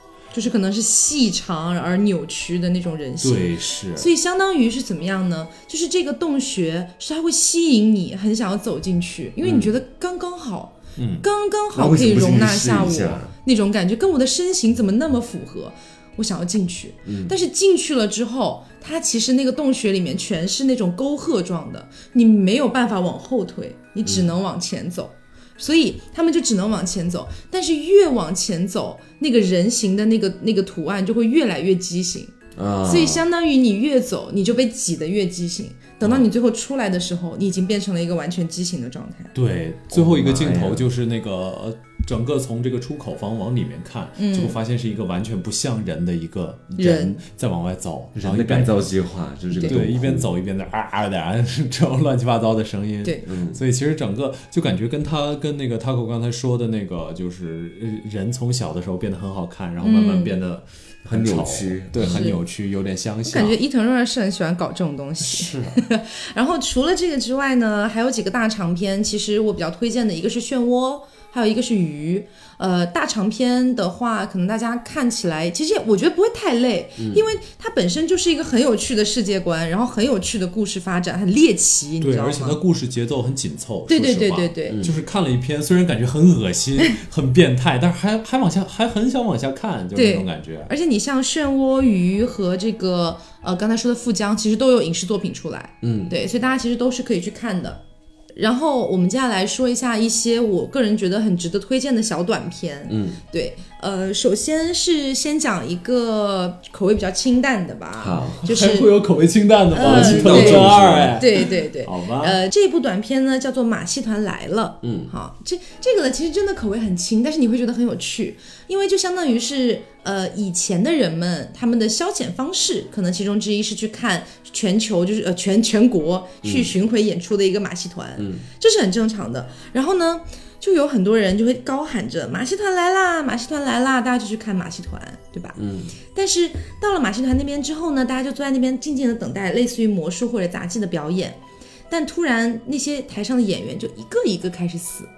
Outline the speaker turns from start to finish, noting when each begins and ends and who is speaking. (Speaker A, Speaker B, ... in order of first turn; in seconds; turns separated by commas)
Speaker A: 0.3-39.3, Speaker B: 3.2-4.1, Speaker C: 9.4-9.8, Speaker B: 10.9-11.2, Speaker C: 11.7-13.3, Speaker C: 17.1-17.3, Speaker C: 24.1-24.3, Speaker C: 32.5-33.2, Speaker B: 39.3-48.8, Speaker C: 39.9-40.9, Speaker A: 44.2-44.6, Speaker A: 46.8-47.2, Speaker C: 48.1-50.3, Speaker A: 49.5-49.8, Speaker B: 49.6-63.6, Speaker C: 53.2-53.6, Speaker A: 59.8-60.4, Speaker C: 61.0-62.2, Speaker A: 62.0-62.4, Speaker A: 63.2-82.6, Speaker B: 65.2-65.8, Speaker B: 82.0-90.7, Speaker A: 83.9-84.8, Speaker A: 89.9-97.8, Speaker C: 95.8-96.1, Speaker A: 98.3-109.0, Speaker C: 102.9-103.2, Speaker C: 108.0-108.4, Speaker B: 108.4-112.4, Speaker A: 109.7-135.6, Speaker C: 109.8-111.2, Speaker C: 114.8-115.1, Speaker C: 126.4-126.7, Speaker C: 128.2-128.4, Speaker C: 135.6-135.9, Speaker A: 136.1-145.1